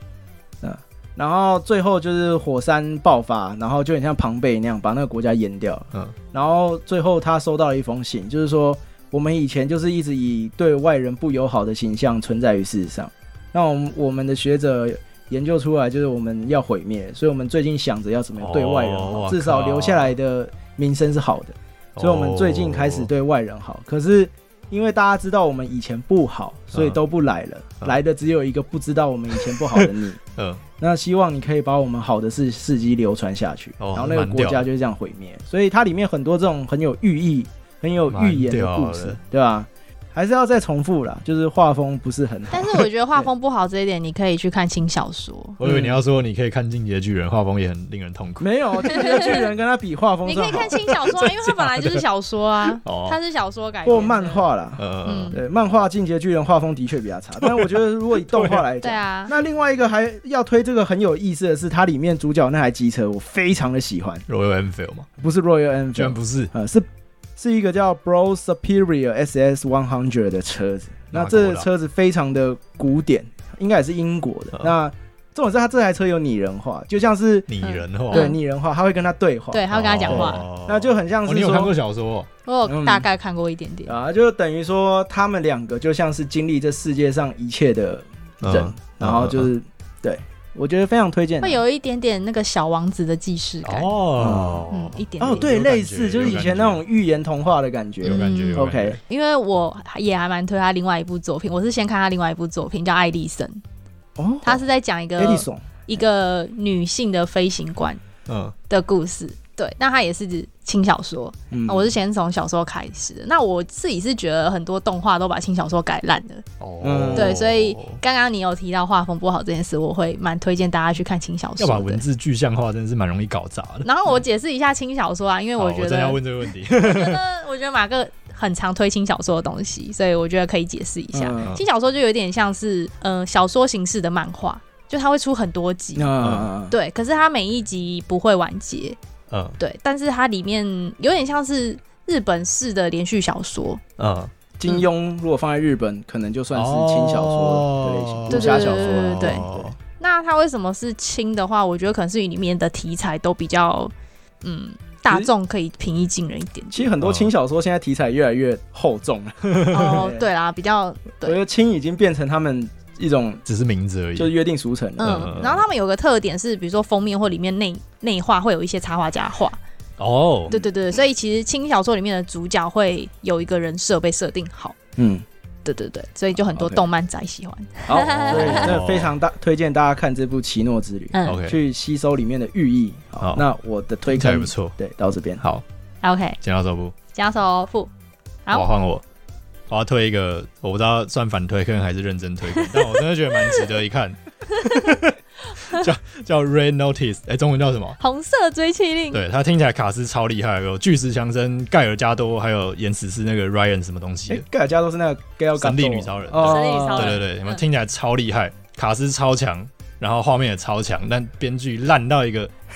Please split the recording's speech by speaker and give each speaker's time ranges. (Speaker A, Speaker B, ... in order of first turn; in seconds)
Speaker A: 0.6-30.2, 30.8-43.3, 45.6-46.0, 48.4-50.9, 53.8-64.2, 65.2-66.8, 67.4-77.5, 78.1-81.7, 82.6-83.1, 83.8-91.6, 94.2-94.7, 95.2-99.0, 104.2-104.6, 105.2-105.8, 111.5-111.9, 116.8-117.4, 131.1-131.5, 135.9-136.8, 144.6-149.7, 156.7-160.3, 161.2-163.4, 164.2-165.4, 175.0-175.2, 176.3-176.8, 177.9-185.4, 204.3-207.2
Speaker B: 18.4-20.1, 21.9-23.1, 26.7-27.0, 29.4-30.6, 33.8-34.6, 38.1-39.2, 45.6-49.0, 50.8-52.0, 52.8-53.2, 54.8-55.4, 57.4-58.6, 64.3-65.1, 65.9-66.5, 71.1-71.7, 77.5-78.3, 79.7-82.3, 88.4-89.5, 93.6-96.8, 98.0-99.0, 108.3-108.5, 116.6-118.0, 121.6-123.9, 125.6-127.2, 136.2-136.5, 139.3-139.6, 144.0-144.3, 146.5-149.8, 157.0-157.3, 163.4-164.3, 165.0-165.6, 170.0-170.5, 178.1-179.1, 181.2-181.6, 184.1-184.7, 186.4-186.9, 188.5-189.0, 189.7-198.0, 199.1-204.4, 205.6-212.5
Speaker C: 42.5-45.6, 49.0-49.5, 50.2-54.5, 55.0-55.4, 58.8-59.3, 77.6-78.4, 79.5-80.5, 82.5-83.9, 91.4-93.9, 94.7-95.4, 98.0-103.6, 104.4-108.0, 108.7-116.4, 117.1-122.0, 123.8-136.1, 136.7-139.0, 139.6-143.8, 148.3-149.4, 150.0-156.9, 159.7-161.4, 165.0-169.6, 170.5-174.7, 175.6-178.8, 181.1-181.4, 186.0-186.4, 187.1-187.9, 188.4-188.7, 192.5-193.6, 194.5-194.8, 198.0-199.2, 206.4-207.6